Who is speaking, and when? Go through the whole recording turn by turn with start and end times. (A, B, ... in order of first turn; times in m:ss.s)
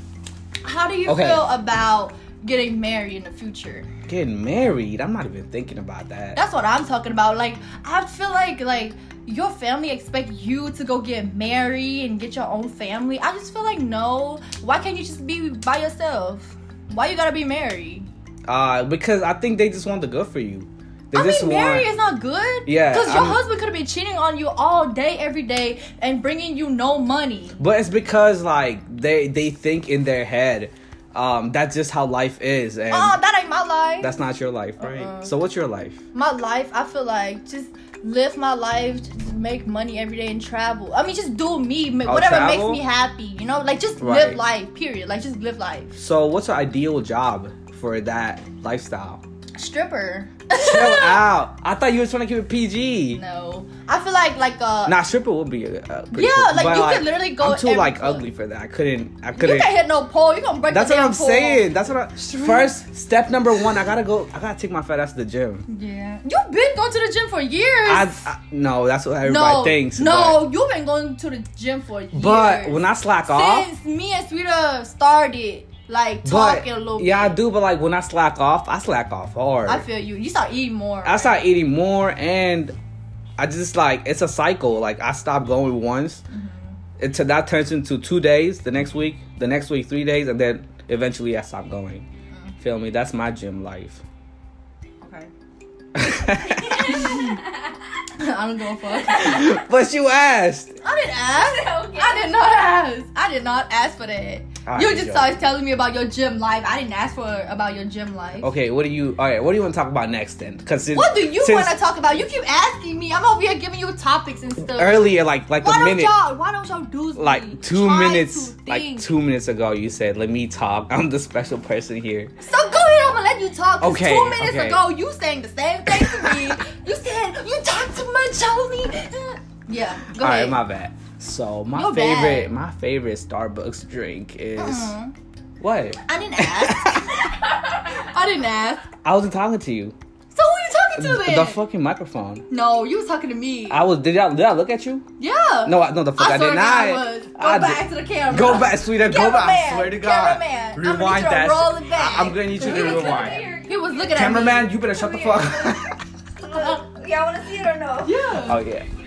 0:00.6-0:03.9 A
0:01.0-0:01.5 B
0:04.1-0:06.4 B
0:06.4-0:18.1 A
0:18.5-0:21.9 B
0:21.1-0:27.6 A
0:22.7-0:23.4 B
0:27.6-0:33.2 B
0:32.9-0:34.1 A
0:34.0-0:36.0 B
0:34.8-0:35.3 A
0:36.1-0:46.0 A
0:42.1-0:42.8 B
0:44.0-0:44.4 B
0:46.0-0:49.2 B
0:49.6-0:51.2 A
0:50.6-0:53.2 B
0:53.1-0:55.0 A
0:54.9-0:59.8 B
0:56.1-0:58.3 A
0:59.3-1:02.7 A
1:00.7-1:05.6 B
1:05.7-1:08.1 A
1:07.8-1:10.5 B
1:09.2-1:17.4 A
1:12.1-1:13.7 B
1:16.2-1:19.9 B
1:19.7-1:21.5 A
1:21.0-1:22.8 B
1:23.4-1:26.2 B
1:26.3-1:26.8 A
1:27.0-1:32.1 B
1:32.6-1:34.0 B
1:35.0-1:35.3 A
1:35.9-1:37.1 B
1:36.8-1:37.4 A
1:37.1-1:37.5 C
1:38.1-1:39.5 A
1:39.1-1:40.8 B
1:40.8-1:48.5 A
1:41.3-1:42.4 C
1:44.6-1:45.4 B
1:48.4-1:51.8 B
1:50.9-1:59.1 A
1:54.7-1:56.2 B
1:57.2-2:02.3 B
2:02.4-2:10.6 A
2:03.8-2:04.9 B
2:05.9-2:06.5 B
2:10.2-2:14.9 B
2:11.7-2:12.5 A
2:14.6-2:15.2 A
2:15.6-2:17.1 B
2:16.0-2:17.3 A
2:17.9-2:18.8 A
2:19.0-2:20.0 B
2:20.3-2:21.6 A
2:21.0-2:22.5 B
2:22.5-2:23.9 A
2:23.7-2:25.0 B
2:25.2-2:34.9 A
2:25.6-2:33.5 B
2:32.4-2:34.4 C
2:34.1-2:36.0 B
2:34.9-2:35.8 C
2:36.4-2:38.1 C
2:38.0-2:38.6 A
2:38.3-2:38.9 B